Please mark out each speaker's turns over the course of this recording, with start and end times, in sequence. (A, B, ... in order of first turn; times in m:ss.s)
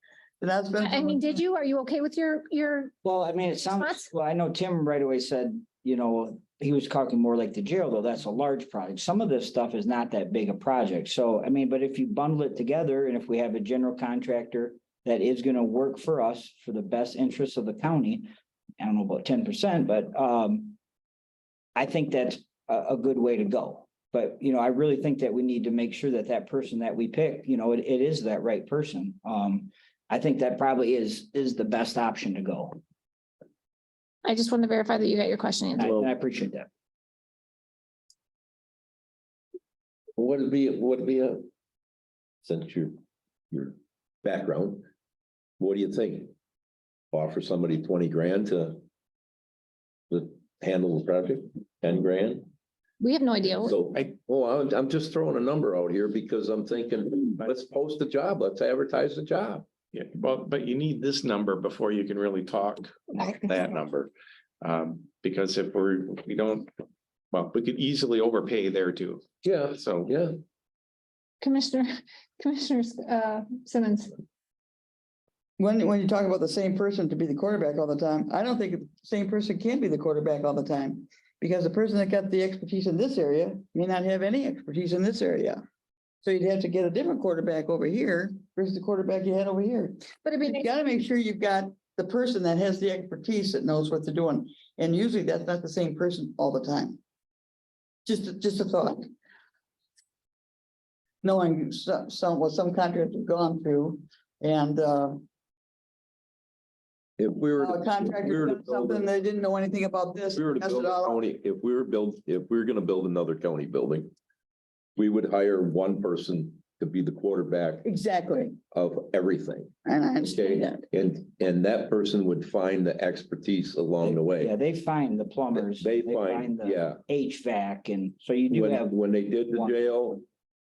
0:00.4-0:01.4 A
0:00.8-0:02.9 B
0:03.0-0:20.8 C
0:03.6-0:04.1 B
0:21.8-0:32.8 C
0:34.2-0:35.9 B
0:35.8-0:36.7 C
0:35.8-0:36.1 D
0:40.2-0:41.5 D
0:42.4-0:44.9 D
0:45.6-0:46.3 D
0:47.1-0:48.8 D
0:50.1-0:52.5 D
0:53.0-0:53.8 B
0:53.5-0:59.7 D
0:59.9-1:06.7 E
1:03.2-1:03.7 B
1:07.3-1:10.1 E
1:09.4-1:10.3 D
1:11.4-1:14.1 B
1:15.6-1:25.6 A
1:26.2-1:37.0 A
1:30.2-1:30.7 B
1:38.1-1:39.1 A
1:41.2-1:45.2 A
1:47.2-1:49.1 D
1:47.6-1:51.2 A
1:50.3-1:54.1 D
1:55.0-1:57.9 D
1:57.8-1:58.6 A
1:58.7-2:04.5 D
1:59.8-2:00.8 A
2:04.0-2:08.9 C
2:05.5-2:07.0 D
2:08.5-2:10.2 D